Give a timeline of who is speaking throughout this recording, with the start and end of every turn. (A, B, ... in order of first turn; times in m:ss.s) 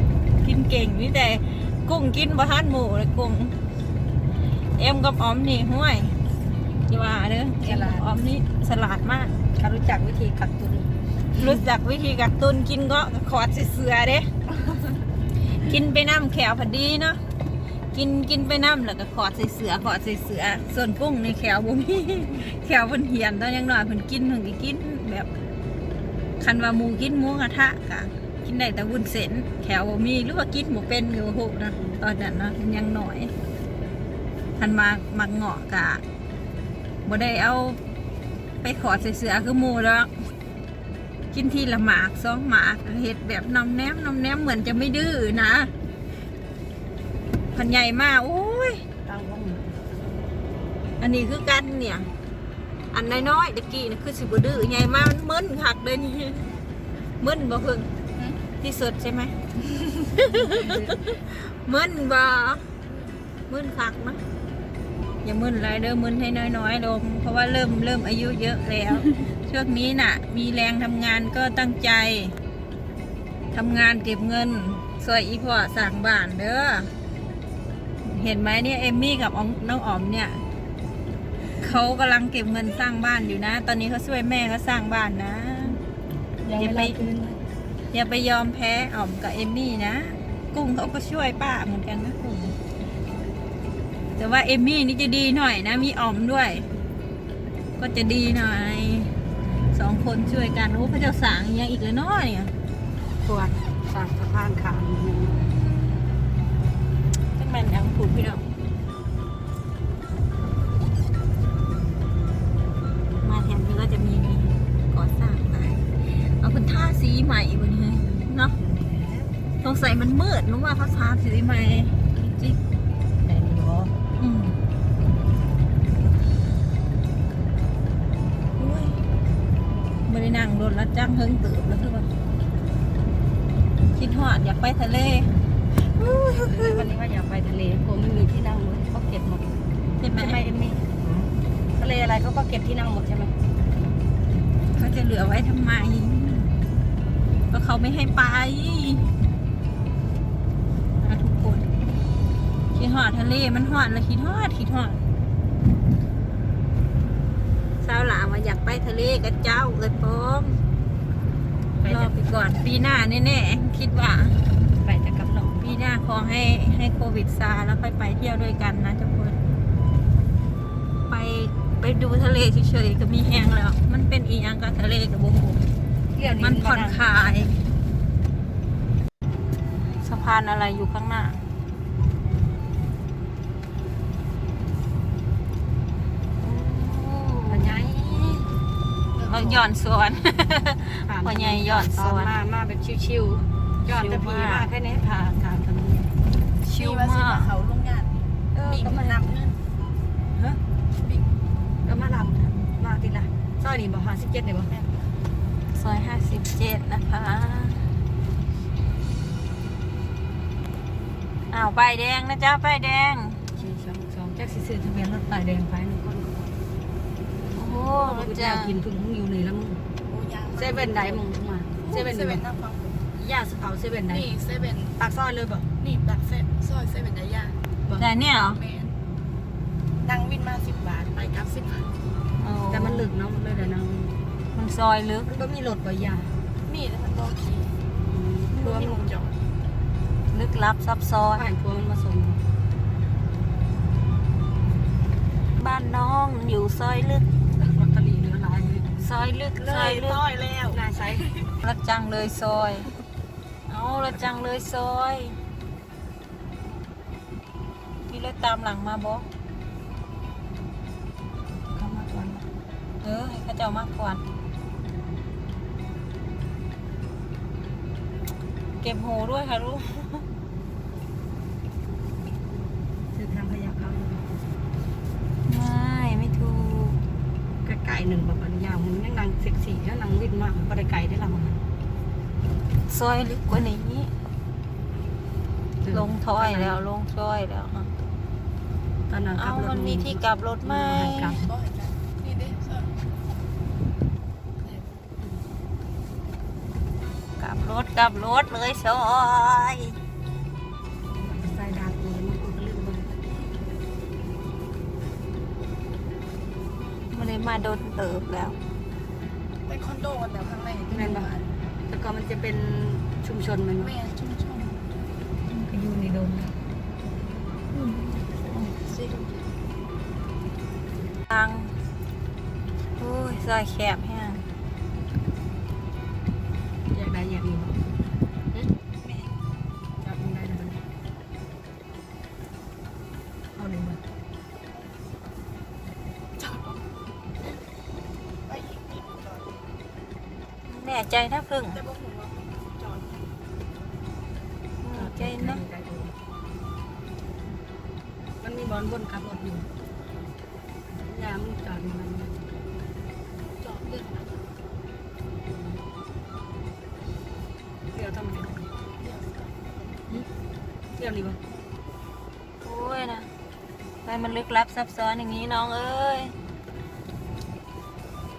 0:00.4-0:03.6 A
0:04.8-0:06.2 A
0:06.9-0:09.4 A
0:07.6-0:08.1 B
0:09.6-0:10.9 B
0:11.3-0:14.3 A
0:15.6-0:17.2 A
0:17.9-0:25.3 A
0:26.4-0:33.3 A
0:34.6-0:36.0 A
0:37.1-0:37.8 A
0:38.6-0:40.1 A
0:41.3-0:45.7 A
0:47.5-0:48.8 A
0:49.0-0:49.9 B
0:51.0-0:52.1 A
0:52.9-0:56.5 A
0:57.2-0:57.9 A
0:58.5-1:02.7 A
1:00.2-1:01.0 B
1:03.5-1:04.2 A
1:05.2-1:12.4 A
1:13.5-1:16.9 A
1:18.0-1:20.4 A
1:21.6-1:25.8 A
1:26.4-1:27.4 B
1:26.6-1:27.0 A
1:27.9-1:32.6 A
1:34.2-1:36.7 A
1:37.8-1:39.1 A
1:39.7-1:42.5 A
1:43.2-1:45.5 B
1:45.4-1:46.1 A
1:47.4-1:48.5 A
1:53.2-1:58.6 A
1:58.6-1:59.3 B
1:59.6-2:02.6 A
2:03.2-2:03.9 B
2:04.2-2:04.6 A
2:08.6-2:09.0 A
2:10.1-2:12.1 A
2:14.0-2:16.8 A
2:16.3-2:19.6 B
2:20.0-2:20.4 A
2:20.2-2:20.9 B
2:21.8-2:23.3 B
2:24.7-2:26.5 A
2:27.5-2:29.1 A
2:31.0-2:31.7 A
2:32.8-2:35.0 A
2:37.8-2:40.6 A
2:41.8-2:42.1 B
2:41.8-2:44.4 A
2:44.8-2:45.8 B
2:45.6-2:49.4 A
2:51.1-2:55.6 A
2:56.2-2:57.0 B
2:56.4-2:57.6 A
3:00.0-3:01.4 A
3:06.4-3:07.7 A
3:07.5-3:08.5 B
3:09.2-3:09.6 C
3:09.2-3:12.3 A
3:11.0-3:16.1 B
3:13.9-3:14.7 A
3:16.6-3:17.5 A
3:16.7-3:19.6 C
3:18.6-3:19.4 B
3:20.4-3:20.6 B
3:21.0-3:21.3 C
3:21.8-3:24.7 B
3:24.7-3:25.1 C
3:25.7-3:27.9 A
3:31.5-3:33.4 A
3:33.6-3:36.5 B
3:37.6-3:38.8 A
3:37.9-3:39.8 B
3:40.1-3:43.0 C
3:40.6-3:42.4 B
3:43.2-3:44.3 B
3:44.1-3:45.0 C
3:45.0-3:45.7 B
3:45.8-3:47.6 C
3:48.0-3:48.6 A
3:48.5-3:49.0 C
3:50.0-3:51.9 C
3:52.4-3:53.1 A
3:52.7-3:54.1 B
3:54.5-3:55.4 A
3:55.3-3:56.3 B
3:56.6-3:57.8 C
3:58.1-3:59.2 B
3:58.5-3:59.4 C
4:00.3-4:01.4 A
4:01.3-4:02.4 B
4:05.6-4:07.3 A
4:07.6-4:09.1 B
4:09.0-4:10.3 A
4:09.6-4:11.5 C
4:10.7-4:11.4 B
4:11.6-4:12.9 A
4:13.7-4:15.4 A
4:18.1-4:19.3 A
4:21.7-4:22.5 B
4:23.0-4:24.2 A
4:28.8-4:30.3 A
4:33.1-4:34.2 B
4:35.5-4:37.0 A
4:37.6-4:41.6 B
4:42.9-4:44.1 A
4:45.8-4:46.8 B
4:45.9-4:47.9 A
4:49.1-4:51.5 B
4:49.4-4:51.4 A
4:51.4-4:53.0 C
4:54.6-4:55.0 C
4:57.4-5:00.0 A
5:01.1-5:03.1 B
5:07.1-5:08.6 A
5:09.7-5:11.5 C
5:10.9-5:14.0 B
5:13.8-5:15.1 C
5:15.5-5:16.5 B
5:17.7-5:18.6 A
5:18.6-5:19.4 C
5:21.3-5:21.8 A
5:23.0-5:24.5 A
5:26.9-5:27.8 B
5:29.0-5:29.3 C
5:30.0-5:30.8 B
5:33.6-5:34.0 B
5:36.4-5:36.9 C
5:38.5-5:39.6 C
5:40.7-5:41.8 A
5:41.7-5:43.3 C
5:44.8-5:45.6 A
5:44.9-5:46.1 B
5:48.4-5:49.7 B
5:51.0-5:52.4 B
5:53.6-5:54.5 C
5:57.9-5:58.7 B
5:59.0-5:59.7 C
6:01.0-6:01.4 B
6:02.6-6:03.3 A
6:04.0-6:06.4 A